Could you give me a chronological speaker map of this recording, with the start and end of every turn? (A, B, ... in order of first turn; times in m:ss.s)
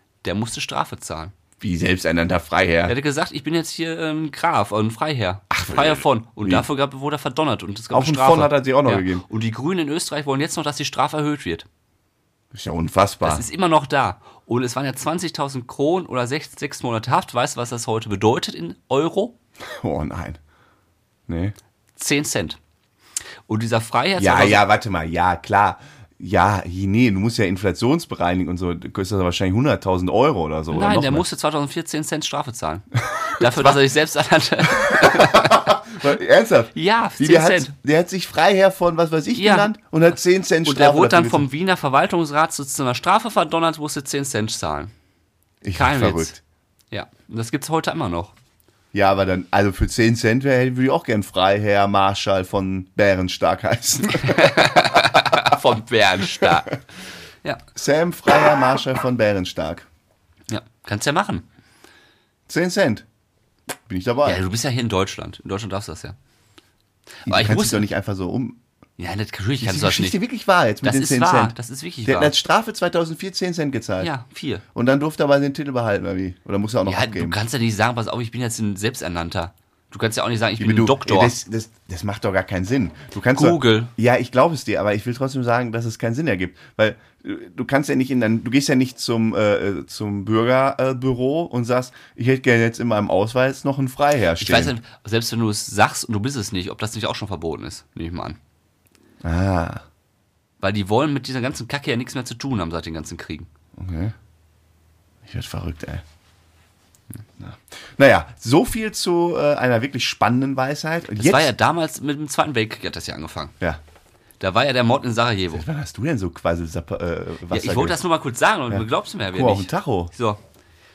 0:00.2-0:01.3 A
0:01.6-0:03.0 B
0:02.9-0:11.7 A
0:05.5-0:06.7 B
0:07.9-0:09.2 B
0:12.5-0:13.4 B
0:13.2-0:19.3 A
0:19.8-0:20.4 B
0:21.3-0:21.6 B
0:22.0-0:22.6 A
0:23.5-0:24.6 A
0:24.2-0:31.2 B
0:30.7-0:35.7 A
0:33.4-0:33.8 B
0:34.8-0:41.4 B
0:36.7-0:37.7 A
0:39.4-0:39.7 A
0:40.6-0:44.9 A
0:45.6-0:46.4 B
0:45.7-0:46.3 A
0:46.9-0:48.3 A
0:48.9-0:55.5 B
0:54.2-0:56.7 A
0:57.7-0:59.9 B
1:00.5-1:01.4 A
1:02.5-1:03.0 B
1:03.9-1:04.4 B
1:04.2-1:06.2 A
1:07.3-1:07.9 A
1:07.3-1:08.6 B
1:09.0-1:10.2 A
1:09.6-1:14.1 B
1:10.8-1:12.3 A
1:14.0-1:14.6 A
1:14.7-1:17.4 B
1:16.9-1:21.3 A
1:20.6-1:34.7 B
1:23.3-1:23.9 A
1:34.4-1:38.4 A
1:39.2-1:39.8 B
1:40.6-1:43.5 A
1:43.8-1:44.1 B
1:45.3-1:46.0 B
1:47.4-1:51.5 B
1:51.2-1:53.5 A
1:54.4-1:55.6 A
1:55.5-1:58.0 B
1:57.5-2:00.4 A
1:58.7-2:00.1 B